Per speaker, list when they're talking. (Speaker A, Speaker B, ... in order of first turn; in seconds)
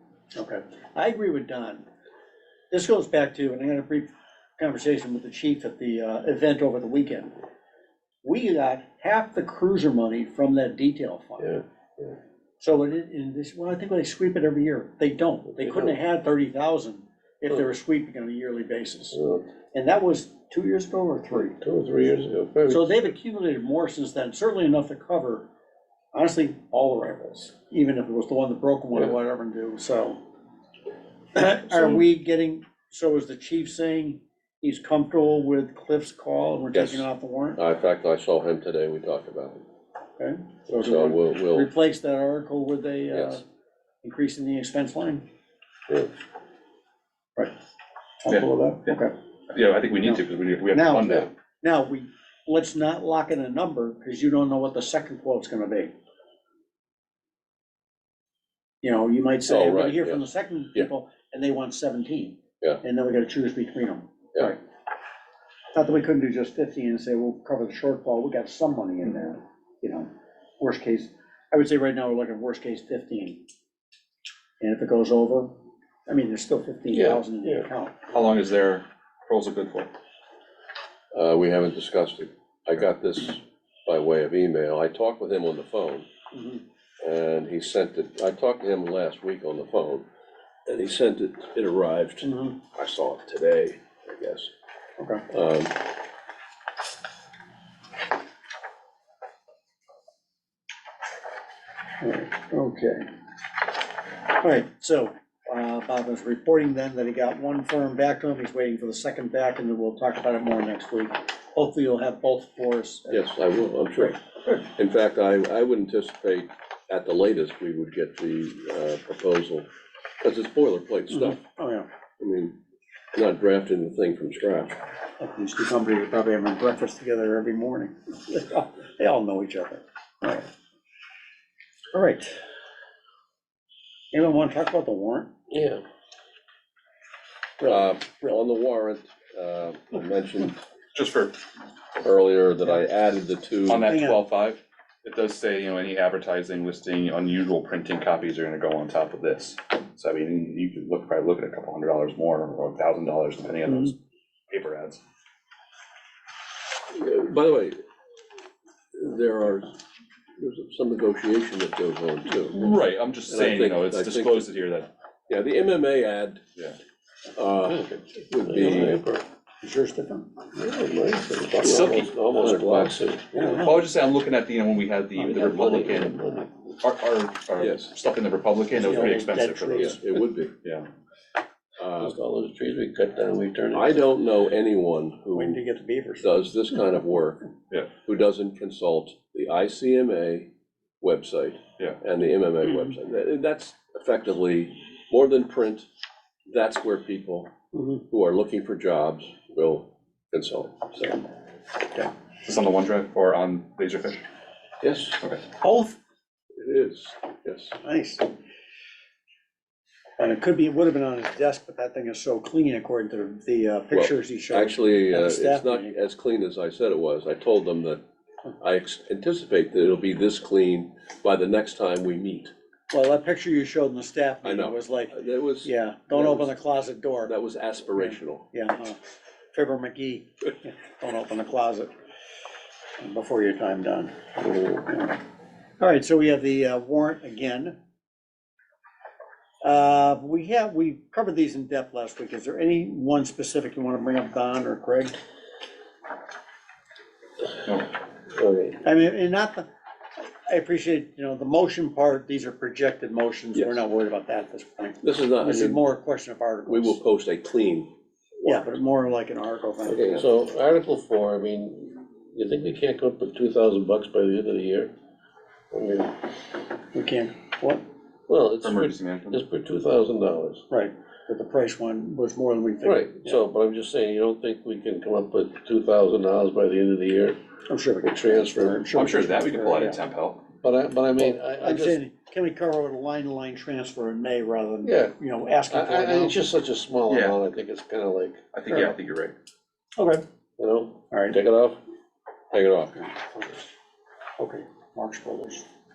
Speaker A: 0.3-1.8, 2.7-7.3, 8.2-11.6, 12.6-19.2, 19.7-21.6, 22.7-25.5, 26.1-30.2, 31.3-37.6, 40.2-43.4, 44.0-45.2, 48.2-49.1, 50.0-55.9, 58.8-64.6, 65.7-73.4, 74.6-75.5, 76.1-78.1, 86.3-86.6, 92.2-92.5, 95.0-95.2, 102.0-103.1, 104.3-114.1, 121.1-121.9, 125.2-130.5, 131.9-132.4, 134.1-135.3, 137.6-138.4, 143.9-144.2, 168.6-168.9, 169.6-170.3, 173.3-173.8, 175.2-175.5, 178.7-180.0, 185.3-186.4, 205.6-205.9, 207.8-208.2, 210.2-215.9, 222.9-227.3, 228.0-229.0, 229.5-231.9, 233.0-235.2, 235.8-237.8, 239.6-245.1, 248.8-249.7, 250.5-257.0, 258.4-260.2, 266.9-267.8, 270.7-273.4, 277.7-280.0, 281.2-286.5, 290.0-290.2, 291.1-291.4, 293.0-293.2, 294.4-295.7
Speaker B: 11.6-12.1, 19.2-19.4, 36.7-39.6, 40.7-41.7, 43.1-43.4, 59.5-60.2, 81.1-86.1, 87.0-90.0, 90.7-94.5, 95.3-95.8, 113.1-119.7, 120.2-121.4, 122.2-122.6, 123.1-124.8, 135.5-135.8, 137.6-140.6, 142.0-143.9, 156.9-157.8, 158.9-159.7, 160.4-162.8, 163.3-164.5, 165.3-166.4, 167.3-169.0, 171.6-173.5, 175.3-175.9, 177.6-177.9, 179.7-180.5, 181.8-182.2, 183.7-185.6, 186.2-190.5, 191.0-195.9, 196.5-201.2, 204.8-205.2, 206.6-207.8, 213.9-218.0, 218.6-222.5, 224.4-226.5, 227.2-228.5, 253.5-253.8, 255.0-255.8, 256.6-257.9, 259.9-260.2, 292.5-293.1
Speaker C: 21.6-22.9, 168.4-169.2, 170.6-173.4, 175.3-176.5, 182.0-184.0, 248.4-248.8, 260.0-264.9, 265.7-266.1, 268.3-270.6, 272.8-277.4, 278.0-278.9, 280.6-282.0, 284.8-285.1, 285.7-288.5, 290.6-291.8
Speaker D: 48.3-49.0, 49.5-51.3, 78.1-79.9, 140.9-141.4, 143.7-153.9, 154.5-155.0, 162.5-164.9, 171.6-172.7, 173.4-180.0, 180.6-180.9, 202.4-204.2, 268.6-269.4, 278.9-280.5, 287.1-287.4, 288.5-289.3